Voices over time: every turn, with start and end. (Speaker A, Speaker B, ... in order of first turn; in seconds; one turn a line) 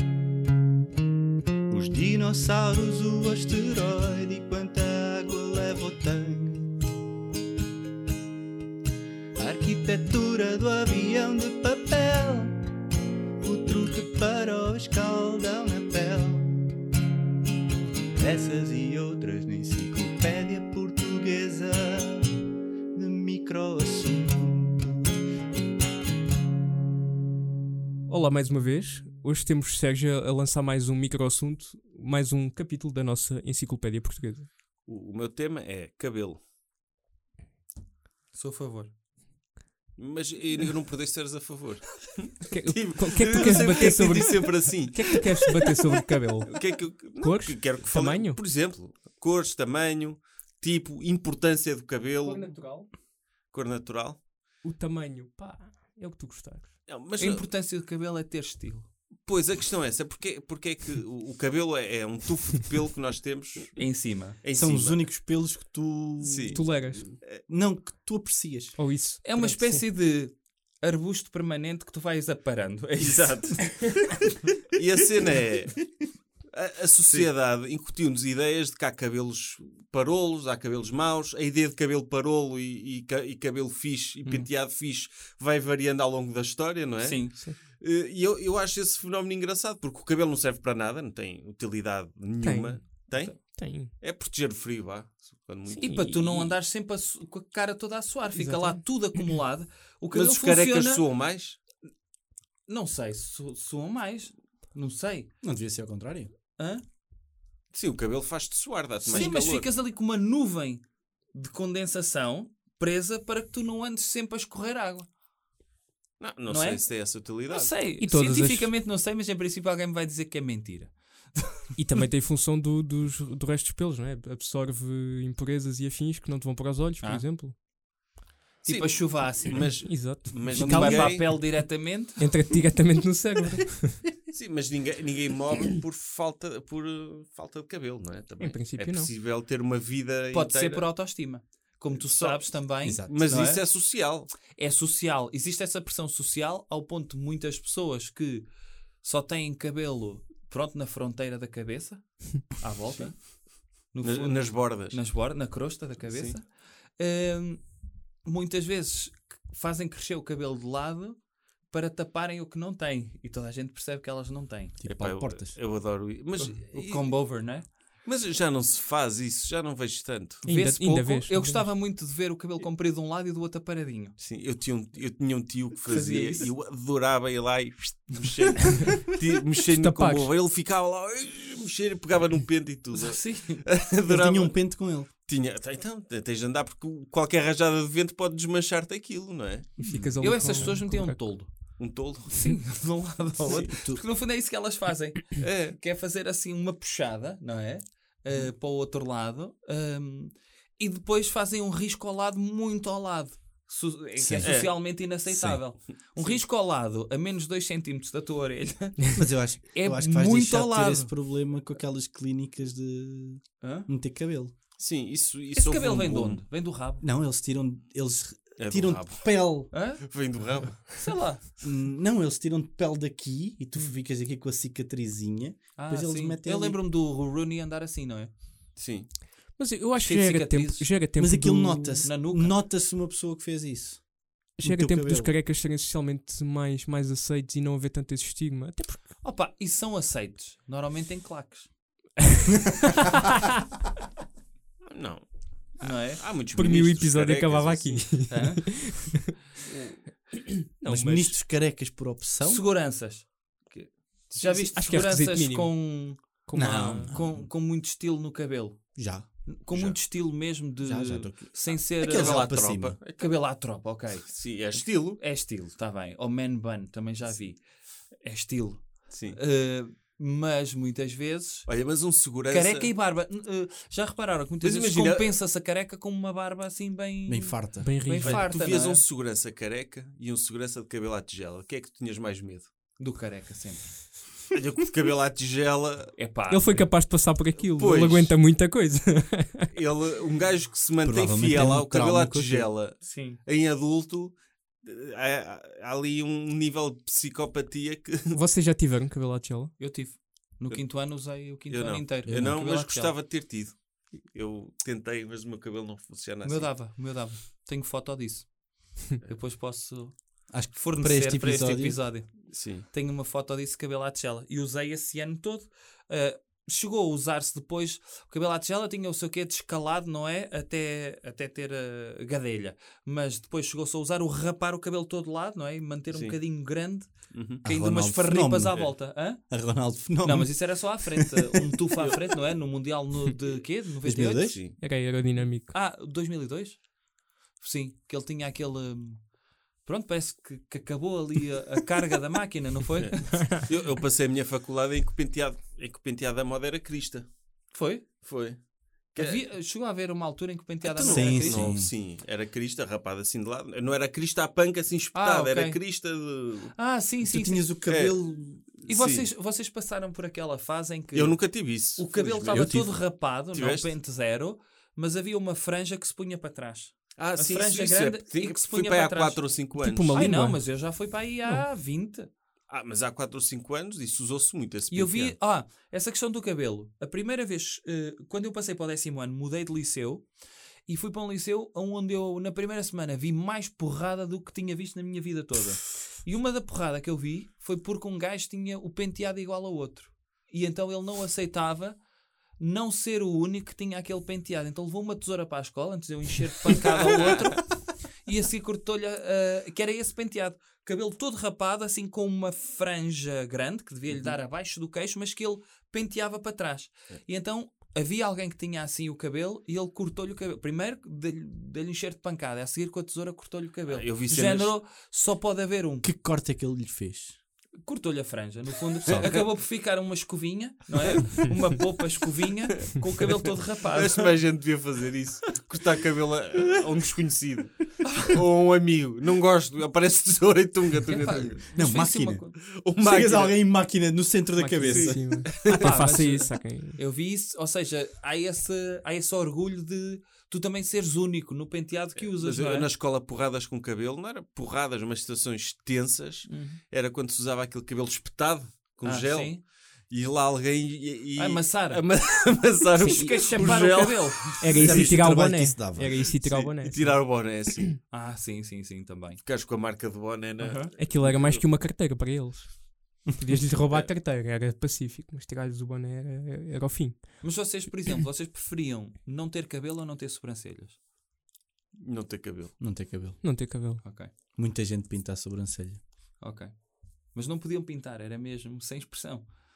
Speaker A: 1.7-6.8
Speaker B: 3.2-4.0
Speaker A: 9.4-12.6
Speaker B: 9.4-10.6
Speaker A: 13.4-16.5
Speaker B: 14.9-15.4
Speaker A: 18.2-22.4
Speaker B: 18.3-21.7
Speaker A: 23.0-25.0
Speaker B: 23.4-23.7
Speaker C: 28.1-34.5
Speaker D: 34.8-36.4
Speaker E: 38.3-38.9
Speaker D: 40.0-45.8
Speaker C: 42.4-48.4
Speaker D: 46.4-52.5
Speaker C: 52.2-52.9
Speaker D: 53.5-54.3
Speaker C: 54.6-56.8
Speaker D: 56.9-57.5
Speaker E: 57.2-58.9
Speaker D: 59.2-63.8
Speaker E: 63.7-64.4
Speaker D: 64.4-65.0
Speaker B: 64.5-68.8
Speaker D: 66.2-66.6
Speaker C: 66.5-67.1
Speaker C: 68.8-69.8
Speaker E: 69.2-73.9
Speaker D: 73.0-73.6
Speaker D: 74.7-75.8
Speaker D: 76.5-96.5
Speaker E: 87.0-87.3
Speaker C: 92.4-94.0
Speaker E: 95.8-101.1
Speaker C: 95.8-96.1
Speaker B: 98.4-98.7
Speaker D: 100.1-101.6
Speaker E: 102.7-105.3
Speaker B: 105.4-106.3
Speaker E: 106.6-106.8
Speaker D: 107.7-109.7
Speaker E: 109.0-115.1
Speaker D: 116.2-117.7
Speaker E: 116.5-116.9
Speaker E: 117.4-121.6
Speaker C: 118.0-118.7
Speaker C: 121.8-127.5
Speaker D: 128.6-131.3
Speaker E: 128.6-132.2
Speaker C: 129.5-131.6
Speaker C: 132.2-134.1
Speaker D: 134.3-140.9
Speaker C: 138.4-139.1
Speaker E: 140.3-143.6
Speaker D: 141.9-144.3
Speaker B: 142.8-143.6
Speaker E: 144.5-148.5
Speaker E: 149.0-157.7
Speaker D: 152.9-153.2
Speaker D: 153.8-155.2
Speaker D: 156.1-156.3
Speaker E: 158.2-164.8
Speaker B: 164.8-165.6
Speaker D: 164.8-167.1
Speaker E: 166.4-167.7
Speaker D: 168.0-170.4
Speaker C: 170.4-171.7
Speaker E: 170.4-174.1
Speaker D: 174.2-184.6
Speaker E: 175.8-176.5
Speaker C: 179.7-180.3
Speaker E: 182.9-183.6
Speaker B: 184.1-185.1
Speaker D: 185.2-190.8
Speaker C: 189.8-191.2
Speaker E: 190.2-191.5
Speaker D: 191.8-192.4
Speaker E: 192.3-209.1
Speaker B: 193.5-194.0
Speaker D: 195.4-195.8
Speaker B: 204.2-204.7
Speaker D: 204.4-204.9
Speaker B: 205.2-205.6
Speaker B: 209.2-214.5
Speaker E: 209.7-211.1
Speaker E: 213.6-213.9
Speaker D: 214.8-216.4
Speaker E: 215.5-217.0
Speaker B: 217.0-219.7
Speaker D: 218.6-219.3
Speaker E: 219.7-220.0
Speaker D: 220.1-221.1
Speaker E: 220.9-221.4
Speaker B: 221.6-226.8
Speaker E: 225.8-228.3
Speaker D: 228.8-229.1
Speaker C: 229.6-232.0
Speaker E: 230.0-230.9
Speaker B: 231.2-235.3
Speaker E: 232.0-232.6
Speaker C: 234.6-239.1
Speaker E: 239.2-241.7
Speaker D: 244.9-248.4
Speaker E: 245.8-246.2
Speaker C: 246.5-249.3
Speaker E: 248.3-248.6
Speaker D: 249.6-250.0
Speaker C: 250.3-251.4
Speaker B: 250.8-252.6
Speaker E: 252.4-253.5
Speaker D: 253.7-254.7
Speaker E: 254.4-258.8
Speaker C: 254.6-255.8
Speaker C: 256.5-257.1
Speaker B: 256.5-257.4
Speaker B: 258.9-259.3
Speaker E: 259.4-262.4
Speaker D: 259.7-260.0
Speaker B: 260.8-263.0
Speaker D: 262.0-263.3
Speaker E: 263.2-267.6
Speaker D: 264.2-265.2
Speaker E: 268.2-271.7
Speaker D: 269.1-269.4
Speaker D: 271.6-272.9
Speaker E: 272.4-279.0
Speaker D: 274.6-275.4
Speaker B: 277.2-278.1
Speaker C: 277.8-278.5
Speaker D: 278.2-282.7
Speaker E: 283.0-283.9
Speaker D: 284.5-286.2
Speaker E: 286.2-286.9
Speaker C: 286.5-289.7
Speaker D: 287.8-288.4
Speaker D: 289.7-298.4
Speaker B: 291.0-292.7
Speaker E: 293.0-293.4
Speaker C: 298.3-299.7
Speaker E: 299.8-303.2
Speaker D: 300.7-306.8
Speaker B: 302.2-302.6
Speaker E: 306.4-329.4
Speaker B: 310.5-312.0
Speaker D: 312.5-312.9
Speaker D: 326.1-326.4
Speaker D: 327.3-327.6
Speaker B: 327.6-331.2
Speaker E: 330.2-334.7
Speaker B: 334.0-334.6
Speaker D: 334.5-334.8
Speaker C: 334.8-335.7
Speaker E: 335.7-336.9
Speaker E: 337.5-339.3
Speaker E: 339.8-343.5
Speaker D: 343.0-347.3
Speaker C: 343.3-343.7
Speaker E: 347.7-348.1
Speaker D: 348.2-349.5
Speaker E: 349.2-351.8
Speaker D: 350.8-356.7
Speaker B: 351.0-351.9
Speaker E: 355.1-355.8
Speaker E: 356.7-357.7
Speaker B: 357.2-358.9
Speaker D: 357.9-358.2
Speaker E: 358.9-369.6
Speaker D: 358.9-359.3
Speaker D: 361.1-363.9
Speaker B: 362.5-362.9
Speaker D: 367.2-370.3
Speaker C: 369.7-370.6
Speaker E: 370.1-372.3
Speaker D: 372.7-375.3
Speaker E: 374.9-380.3
Speaker E: 380.9-392.0
Speaker E: 392.6-416.1
Speaker D: 413.9-414.7
Speaker B: 416.0-417.4
Speaker E: 417.8-424.3
Speaker D: 419.1-419.4
Speaker D: 423.9-431.7
Speaker E: 431.1-432.5
Speaker B: 431.8-435.5
Speaker D: 432.8-433.6
Speaker C: 434.6-437.0
Speaker D: 434.8-435.9
Speaker E: 435.7-442.9
Speaker D: 442.1-449.6
Speaker E: 446.5-446.8
Speaker E: 449.0-449.6
Speaker D: 450.1-455.2
Speaker E: 451.4-452.0
Speaker C: 453.0-453.7
Speaker E: 453.0-454.7
Speaker C: 454.6-457.9
Speaker B: 454.8-456.1
Speaker D: 456.3-457.9
Speaker E: 458.1-459.4
Speaker D: 459.4-461.7
Speaker E: 460.6-460.9
Speaker C: 460.9-467.5
Speaker E: 467.4-471.0
Speaker D: 472.0-472.9
Speaker B: 472.8-473.4
Speaker C: 473.4-474.0
Speaker E: 474.0-474.3
Speaker B: 474.5-476.0
Speaker E: 476.4-479.5